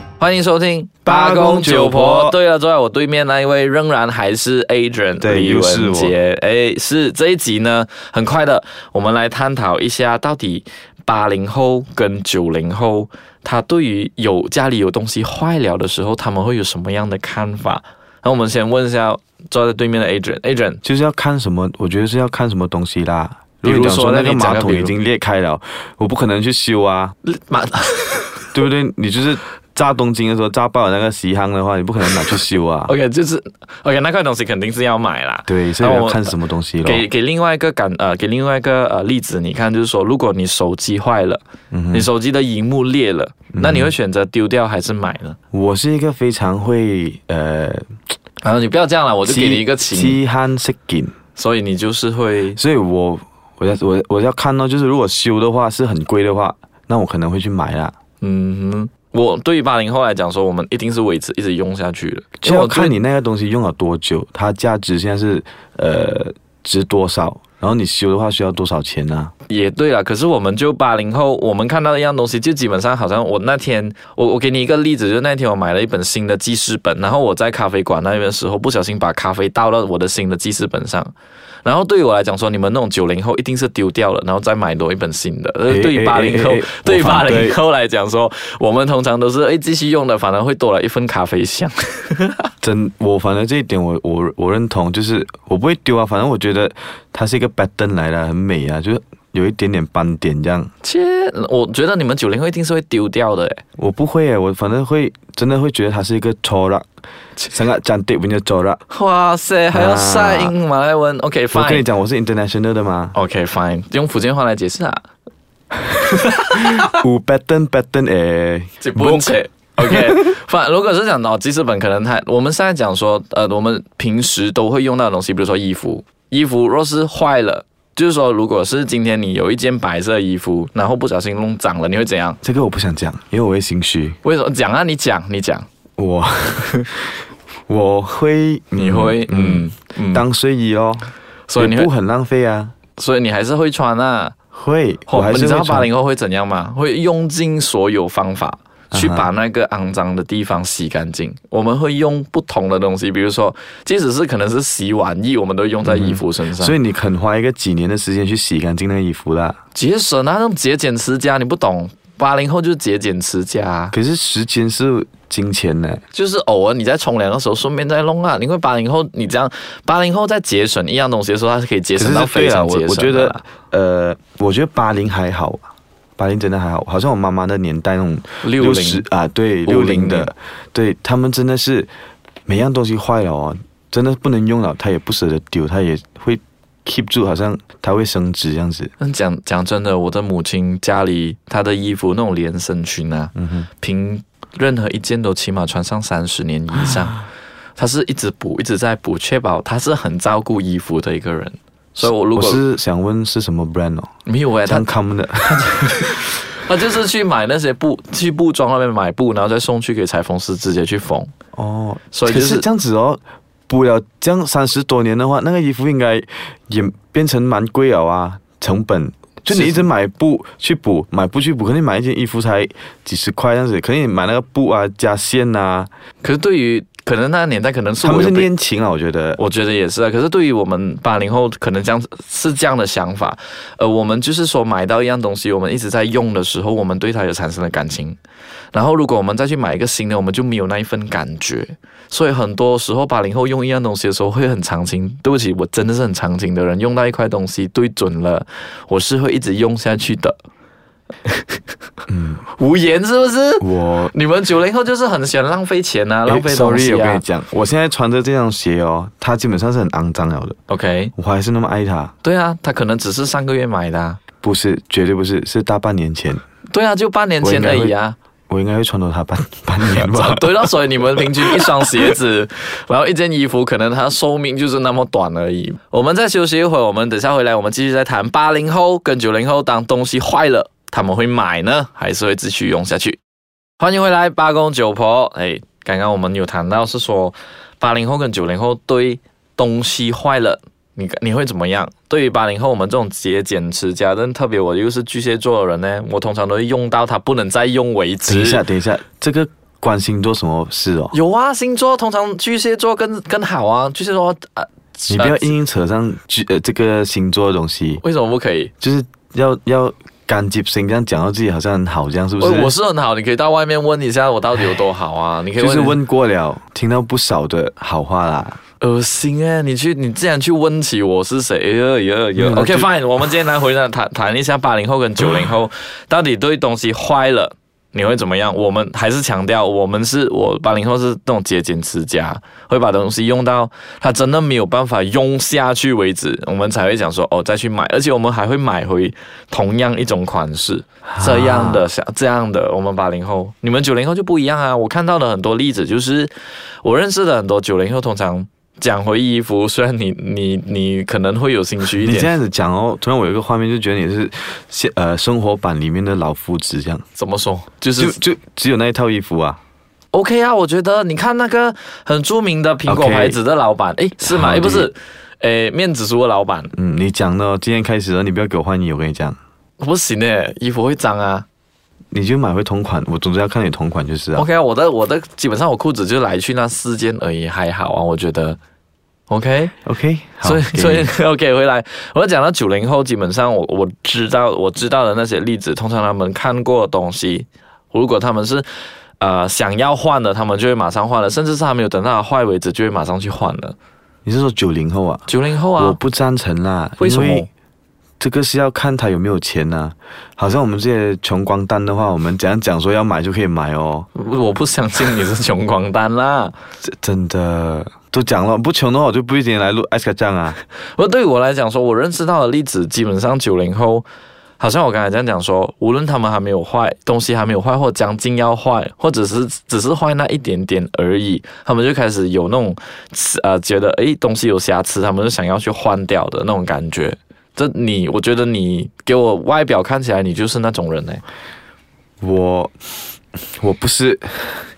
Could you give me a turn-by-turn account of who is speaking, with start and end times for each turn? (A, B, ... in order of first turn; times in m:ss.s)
0:00.2-0:20.8 A
0:01.0-0:02.4 B
0:05.2-0:06.1 B
0:20.8-0:27.1 B
0:23.6-0:24.9 A
0:27.2-0:28.5 A
0:28.5-0:32.9 B
0:32.9-0:45.4 A
0:35.5-0:37.0 B
0:41.7-0:42.1 B
0:43.5-0:43.9 B
0:45.5-0:48.0 B
0:48.4-0:50.2 A
0:49.3-0:51.1 B
0:51.4-0:52.6 A
0:52.5-0:57.9 B
0:58.2-1:03.0 A
1:02.4-1:09.3 B
1:09.5-1:21.1 A
1:21.6-1:32.5 A
1:25.7-1:27.6 B
1:32.6-1:40.7 B
1:40.8-1:43.6 A
1:43.8-1:46.8 B
1:47.5-1:48.8 B
1:48.9-1:51.8 A
1:49.7-1:50.5 B
1:51.5-1:53.2 B
1:53.1-1:55.0 A
1:56.0-1:56.9 A
1:56.6-2:00.3 B
1:58.8-2:12.4 A
2:12.4-2:14.2 B
2:14.2-2:15.6 A
2:16.0-2:17.0 B
2:17.7-2:22.7 B
2:18.8-2:20.2 A
2:21.5-2:21.9 A
2:23.0-2:24.4 A
2:24.5-2:25.9 B
2:25.1-2:36.8 A
2:28.9-2:29.3 B
2:35.8-2:39.6 B
2:39.7-2:43.9 A
2:43.9-2:46.0 B
2:46.1-2:53.4 A
2:52.0-2:55.6 B
2:56.2-3:01.9 B
2:58.4-2:59.0 A
2:59.6-3:00.3 A
3:02.5-3:08.9 B
3:09.0-3:17.2 A
3:13.4-3:13.7 B
3:17.8-3:22.6 A
3:22.0-3:24.1 B
3:24.2-3:24.9 A
3:24.6-3:25.6 B
3:25.4-3:31.3 A
3:31.5-3:45.9 B
3:32.1-3:32.6 A
3:39.5-3:39.9 A
3:46.2-3:48.5 A
3:48.0-3:49.4 B
3:49.4-3:58.2 A
3:58.7-4:10.4 A
4:11.3-4:11.6 A
4:12.1-4:12.4 B
4:12.5-4:17.2 A
4:13.6-4:14.1 B
4:16.2-4:20.6 B
4:20.7-4:21.1 A
4:21.2-4:22.1 B
4:22.2-4:24.2 A
4:24.4-4:26.4 B
4:26.7-4:28.2 A
4:27.4-4:27.9 B
4:28.5-4:31.9 B
4:29.9-4:43.2 A
4:43.8-4:58.6 A
4:58.3-5:01.1 B
5:01.1-5:05.5 A
5:05.1-5:08.0 B
5:08.0-5:08.7 A
5:08.8-5:12.7 B
5:12.4-5:16.0 A
5:15.6-5:18.6 B
5:18.8-5:46.3 A
5:22.4-5:22.9 B
5:41.1-5:41.8 B
5:46.8-5:52.3 A
5:52.0-5:57.0 B
5:57.2-5:58.2 A
5:58.0-5:59.6 B
6:00.1-6:06.7 A
6:02.8-6:03.4 B
6:04.2-6:04.9 B
6:06.7-6:09.4 B
6:09.8-6:11.4 A
6:12.1-6:14.5 B
6:14.4-6:18.6 A
6:19.3-6:19.7 A
6:19.8-6:21.1 B
6:20.4-6:28.6 A
6:29.2-6:33.8 A
6:34.2-6:35.3 B
6:35.3-6:36.0 A
6:35.8-6:37.4 B
6:37.0-6:37.5 A
6:38.2-6:44.1 B
6:44.1-6:46.5 A
6:46.8-6:50.6 B
6:51.0-6:54.0 A
6:54.6-7:11.2 A
7:12.2-7:12.9 B
7:13.6-7:14.7 B